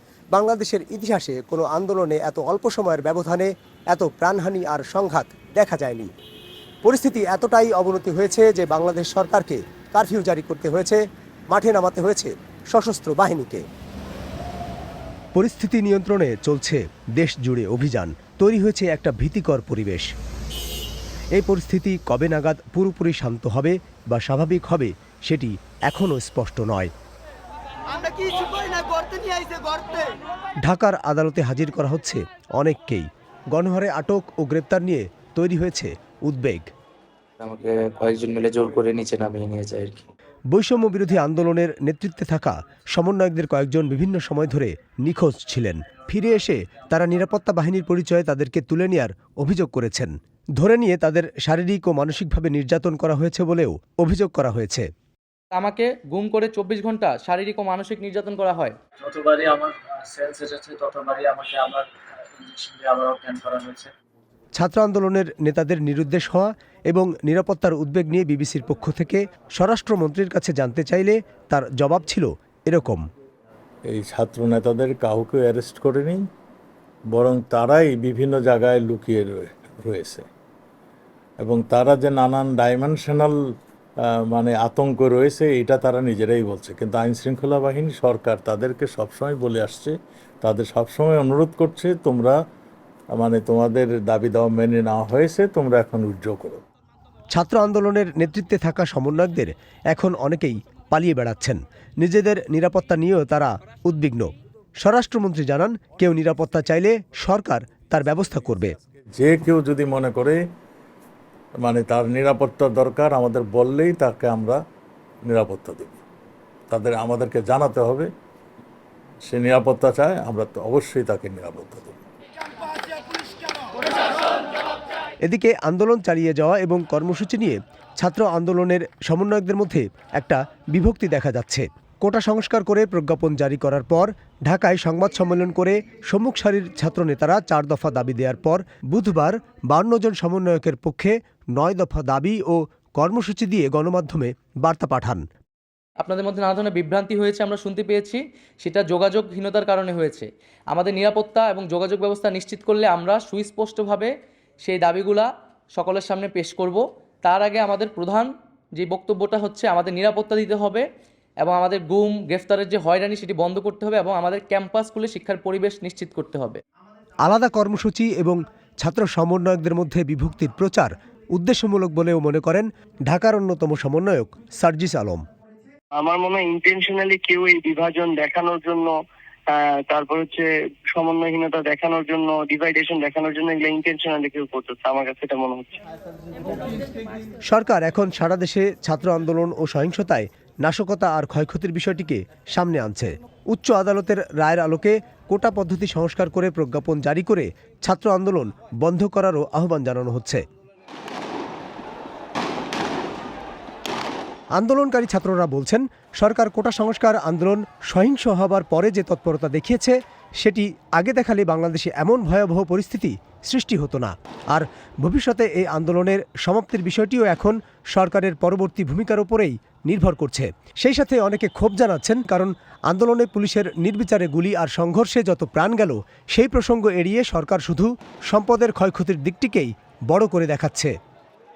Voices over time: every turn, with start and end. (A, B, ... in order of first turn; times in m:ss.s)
0:00.3-0:06.1 A
0:06.8-0:13.6 A
0:15.4-0:20.1 A
0:21.4-0:26.9 A
0:30.6-0:36.7 A
0:37.4-0:40.1 B
0:40.5-0:54.9 A
0:55.5-0:58.8 C
0:59.0-1:01.9 D
1:02.4-1:03.9 D
1:04.6-1:13.1 A
1:13.9-1:16.2 E
1:17.1-1:20.3 E
1:21.4-1:23.4 E
1:24.0-1:32.4 E
1:33.1-1:36.6 E
1:37.3-1:48.8 A
1:49.2-1:50.4 E
1:51.6-1:54.6 E
1:55.3-1:56.0 E
1:56.7-1:58.1 E
1:59.2-2:02.0 E
2:05.3-2:25.2 A
2:26.0-2:34.1 C
2:34.6-2:40.8 C
2:41.4-2:46.6 C
2:47.3-2:55.2 A
2:56.0-2:59.0 F
2:59.5-3:05.8 F
3:07.5-3:20.4 A
3:24.6-3:50.9 A